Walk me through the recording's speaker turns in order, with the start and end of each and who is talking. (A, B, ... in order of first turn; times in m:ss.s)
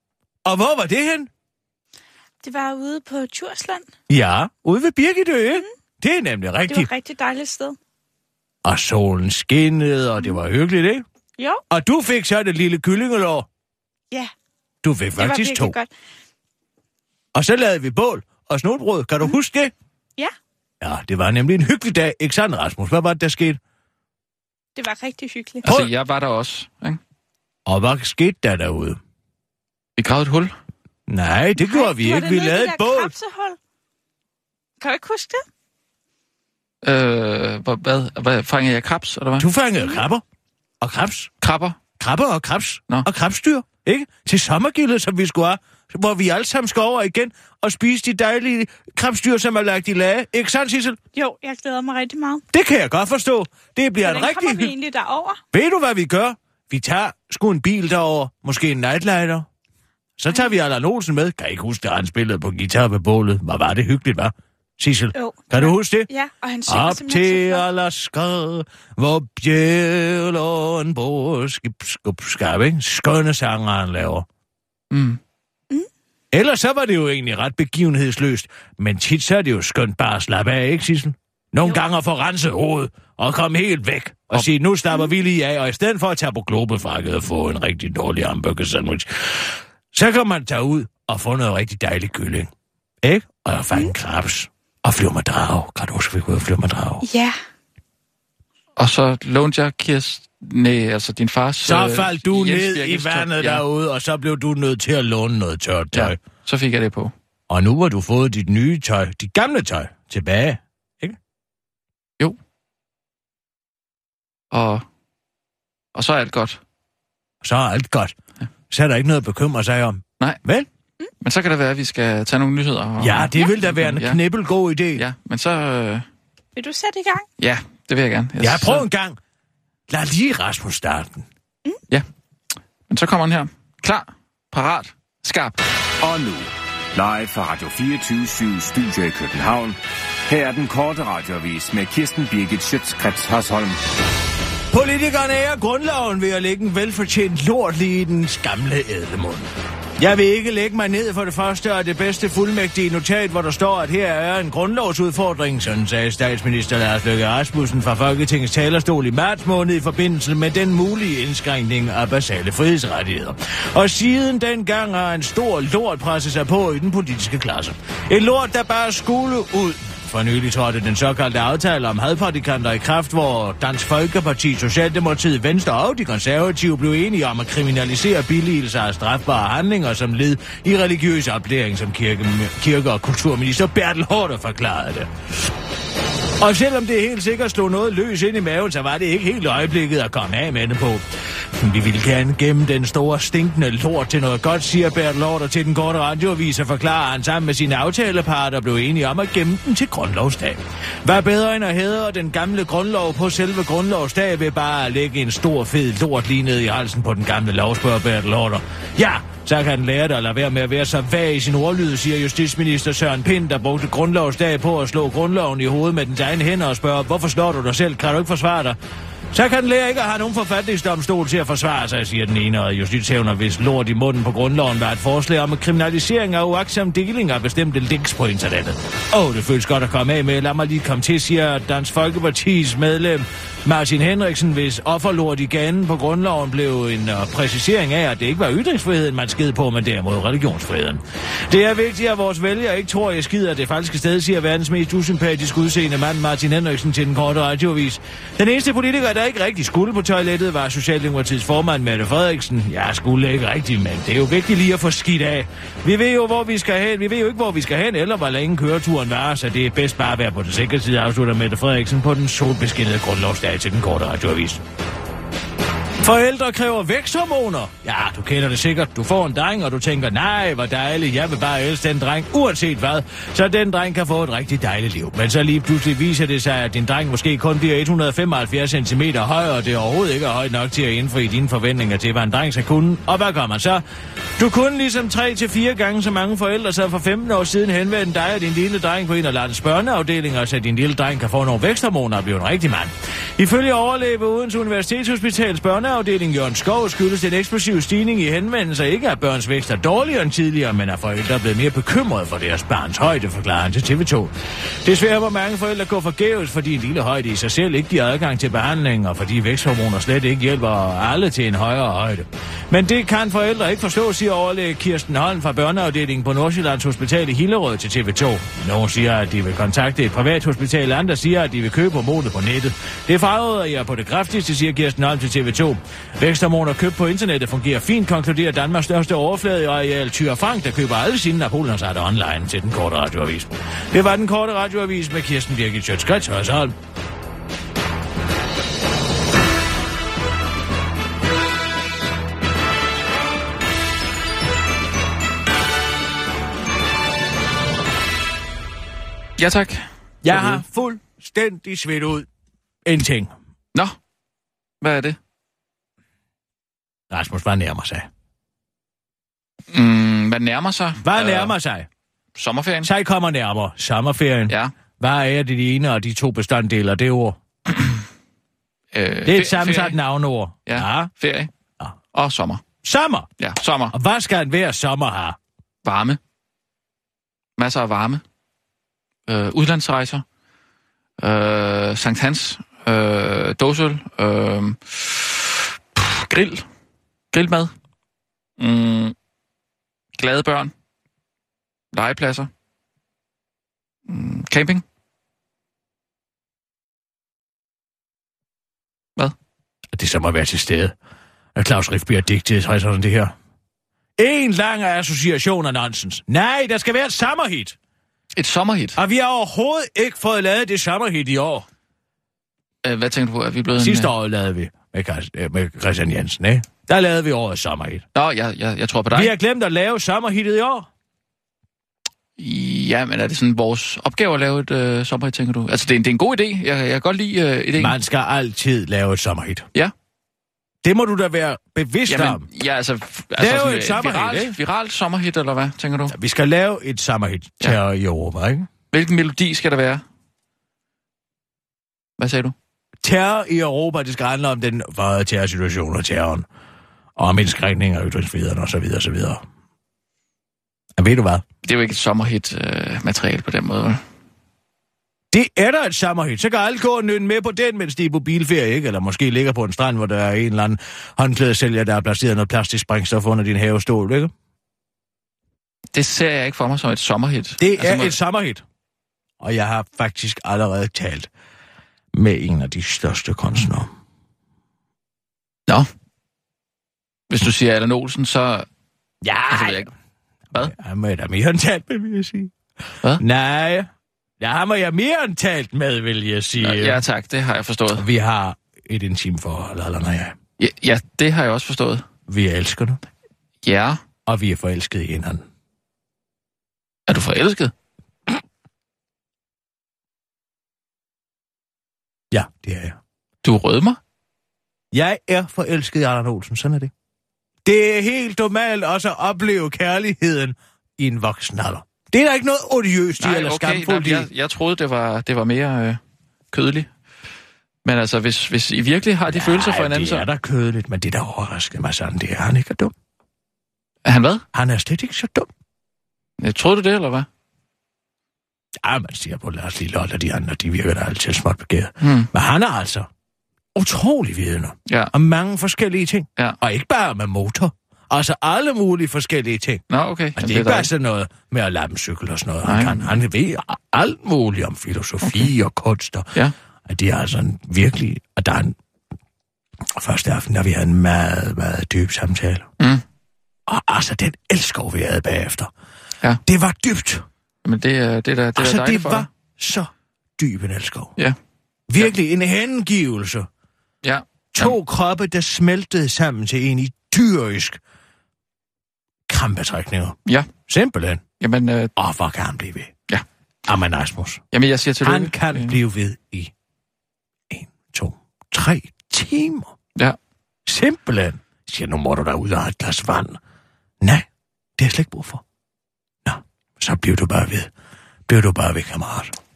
0:00.4-0:01.3 A
0:02.4-0:03.9 B
0:04.1-0:06.9 A
0:06.7-0:07.8 B
0:08.6-0:11.0 A
0:11.7-0:13.5 A
0:14.8-0:15.8 A
0:15.2-0:15.9 B
0:17.4-0:19.7 A
0:20.8-0:23.6 A
0:24.8-0:25.7 B
0:25.6-0:25.9 A
0:25.6-0:27.0 C
0:27.7-0:29.0 A
0:30.0-0:30.5 C
0:31.1-0:33.1 A
0:31.6-0:33.6 B
0:34.8-0:35.4 B
0:36.8-0:39.5 C
0:39.4-0:40.2 A
0:40.8-0:41.3 A
0:41.4-0:41.8 C
0:42.0-0:51.0 A
0:51.1-0:52.4 B
0:52.5-0:54.7 A
0:54.0-0:55.4 B
0:55.5-0:59.5 A
1:00.2-1:06.1 A
1:05.2-1:07.6 B
1:06.7-1:14.3 A
1:14.9-1:15.2 C
1:16.3-1:32.5 A
1:33.0-1:37.0 A
1:37.0-1:37.4 B
1:38.8-1:43.6 C
1:41.6-1:46.2 A
1:45.9-1:47.1 C
1:47.5-1:51.2 A
1:54.5-1:54.8 C
1:56.0-1:56.6 C
1:57.4-1:58.2 A
1:58.7-2:00.7 A
2:01.2-2:04.2 C
2:03.0-2:05.0 A
2:05.0-2:06.0 C
2:06.6-2:07.3 B
2:07.4-2:08.9 C
2:08.4-2:09.2 A
2:09.9-2:11.2 A
2:12.9-2:15.6 C
2:16.0-2:23.8 D
2:24.7-3:05.1 A
3:06.4-3:11.0 A
3:11.6-3:38.8 A
3:39.3-4:24.6 A
4:26.0-4:43.8 A
4:44.4-5:04.3 A
5:04.8-5:36.8 A
5:49.4-5:50.6 C
5:50.2-5:52.3 A
5:52.8-5:53.3 A
5:54.8-5:55.2 C
5:57.1-5:58.1 A
5:59.7-6:01.6 C
6:01.0-6:01.9 A
6:02.4-6:02.9 C
6:02.8-6:07.4 A
6:08.9-6:10.0 C
6:09.3-6:11.1 A
6:10.7-6:11.5 C
6:12.1-6:12.6 C
6:12.8-6:13.3 A
6:13.4-6:14.0 C
6:13.9-6:15.4 A
6:15.8-6:16.2 C
6:17.6-6:18.2 C
6:19.3-6:20.2 C
6:21.2-6:26.6 C
6:27.3-6:27.7 C
6:28.6-6:29.2 C
6:30.2-6:30.7 C
6:31.9-6:32.5 C
6:34.1-6:34.8 C
6:39.9-6:40.9 A
6:41.6-6:43.4 A
6:44.2-6:47.8 A
6:48.4-6:49.0 C
6:49.0-6:51.7 A
6:52.8-6:54.1 C
6:53.8-6:58.0 A
6:58.2-6:59.3 C
6:59.1-7:00.9 A
7:02.4-7:08.0 C
7:07.8-7:09.7 A
7:10.8-7:12.5 A
7:12.1-7:16.2 C
7:13.4-7:14.6 A
7:16.1-7:18.7 A
7:18.9-7:20.0 C
7:22.2-7:22.6 C
7:23.0-7:26.5 A
7:27.2-7:29.4 A
7:31.0-7:31.4 A
7:31.6-7:34.0 C
7:35.3-7:44.3 A
7:45.9-7:48.2 C
7:47.6-7:48.6 A
7:49.4-7:51.3 A
7:52.1-7:53.9 A
7:57.3-7:58.7 C
7:59.2-7:59.9 A
7:59.5-7:59.9 C
8:00.5-8:02.5 A
8:03.2-8:03.9 A
8:04.4-8:07.0 A
8:06.6-8:08.0 C
8:08.0-8:10.4 A
8:10.6-8:12.1 C
8:12.3-8:13.0 A
8:13.6-8:14.0 C
8:14.3-8:15.4 A
8:17.1-8:17.7 C
8:22.3-8:23.0 A
8:23.4-8:24.0 C
8:24.9-8:26.9 A
8:27.6-8:34.3 A
8:33.2-8:36.0 C
8:36.5-8:36.9 C
8:37.8-8:40.3 C
8:39.3-8:42.9 A
8:44.1-8:44.4 C
8:44.5-8:45.5 A
8:46.4-8:47.3 C
8:48.8-8:53.1 A
8:52.0-8:52.3 C
8:53.8-8:59.8 A
8:54.9-8:55.1 C
8:59.9-9:00.9 C
9:00.4-9:06.3 A
9:02.6-9:03.2 C
9:05.2-9:05.5 C
9:06.9-9:08.8 A
9:09.9-9:12.7 A
9:13.7-9:15.7 A
9:16.5-9:17.2 A
9:17.6-9:19.3 C
9:18.6-9:21.1 A
9:21.9-9:23.5 A
9:24.0-9:24.8 C
9:24.5-9:27.8 A
9:29.3-9:31.2 A
9:31.4-9:31.9 C
9:32.0-9:32.9 A
9:33.7-9:34.4 A
9:34.5-9:35.8 C
9:35.0-9:36.5 A
9:37.5-9:39.7 A
9:40.7-9:43.4 A
9:44.0-9:44.3 A
9:44.8-9:45.4 A
9:46.2-9:47.7 A
9:48.3-9:49.3 A